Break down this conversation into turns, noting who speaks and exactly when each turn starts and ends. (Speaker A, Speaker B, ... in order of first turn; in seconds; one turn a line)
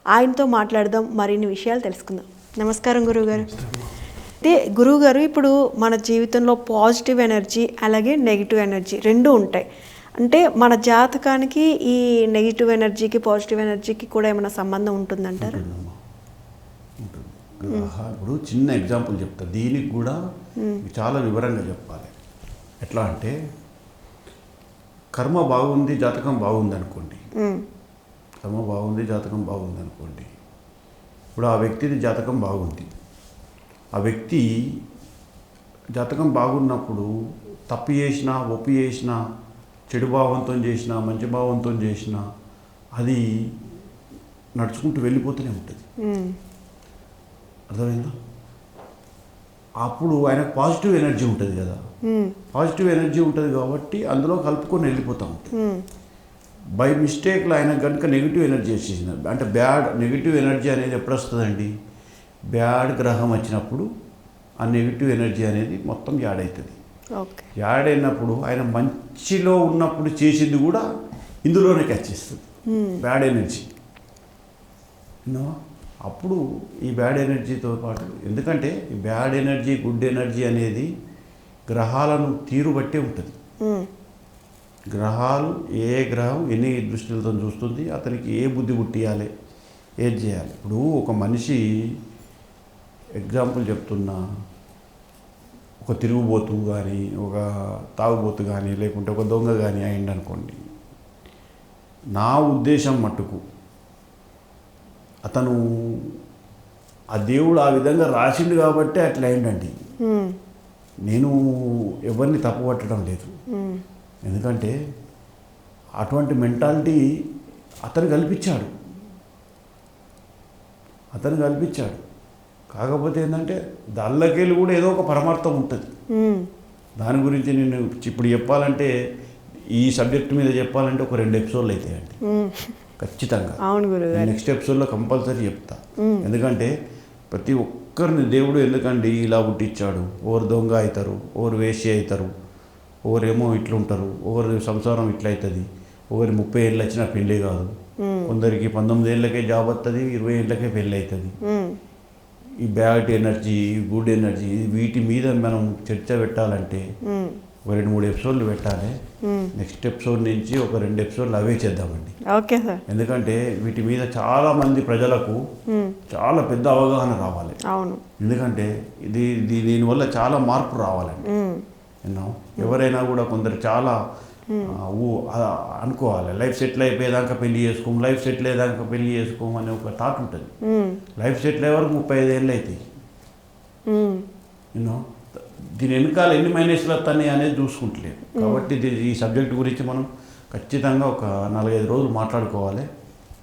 Speaker A: 0.1-3.6
Speaker B: 3.4-3.9
Speaker A: 4.4-9.7
Speaker A: 10.2-15.6
Speaker B: 15.4-16.0
Speaker B: 17.0-20.2
Speaker B: 20.8-22.1
Speaker B: 22.8-23.3
Speaker B: 25.1-27.2
Speaker A: 27.4-27.6
Speaker B: 28.4-30.3
Speaker B: 31.4-32.9
Speaker B: 34.0-34.4
Speaker B: 36.0-37.1
Speaker B: 37.7-39.2
Speaker B: 39.9-42.2
Speaker B: 43.0-43.2
Speaker B: 44.6-45.8
Speaker A: 46.0-46.4
Speaker B: 47.7-48.2
Speaker B: 49.8-51.8
Speaker A: 52.0-52.4
Speaker B: 52.5-55.5
Speaker A: 55.5-55.8
Speaker B: 56.8-61.7
Speaker B: 62.5-63.9
Speaker B: 64.6-66.8
Speaker A: 67.2-67.5
Speaker B: 67.6-70.8
Speaker B: 71.5-72.5
Speaker A: 72.7-73.0
Speaker B: 73.0-73.7
Speaker B: 75.3-75.5
Speaker B: 76.0-80.9
Speaker B: 81.7-83.3
Speaker B: 84.9-89.3
Speaker B: 90.0-91.6
Speaker B: 93.2-94.2
Speaker B: 95.8-100.6
Speaker B: 102.2-103.4
Speaker B: 105.3-106.1
Speaker B: 107.2-109.7
Speaker A: 110.0-110.4
Speaker B: 111.1-113.3
Speaker A: 113.5-113.8
Speaker B: 114.2-114.7
Speaker B: 116.0-117.0
Speaker B: 117.8-118.7
Speaker B: 121.2-122.0
Speaker B: 122.7-125.9
Speaker A: 126.1-126.5
Speaker B: 127.0-128.9
Speaker B: 129.7-132.2
Speaker A: 132.2-132.8
Speaker B: 133.0-133.6
Speaker A: 133.6-134.3
Speaker B: 134.1-136.7
Speaker A: 136.0-136.3
Speaker B: 137.3-142.3
Speaker B: 143.1-147.7
Speaker A: 148.0-148.3
Speaker B: 148.3-151.3
Speaker A: 151.4-151.8
Speaker B: 152.6-156.8
Speaker A: 157.1-157.4
Speaker B: 157.7-158.9
Speaker A: 159.2-159.5
Speaker B: 159.6-162.2
Speaker A: 162.3-162.8
Speaker B: 162.9-165.4
Speaker A: 165.7-166.0
Speaker B: 166.1-167.6
Speaker A: 167.7-168.0
Speaker B: 168.2-171.3
Speaker A: 171.2-171.6
Speaker B: 172.0-174.0
Speaker A: 174.5-174.8
Speaker B: 174.7-180.5
Speaker A: 180.6-181.0
Speaker B: 181.2-182.8
Speaker A: 183.9-184.2
Speaker B: 184.7-192.9
Speaker A: 188.4-188.7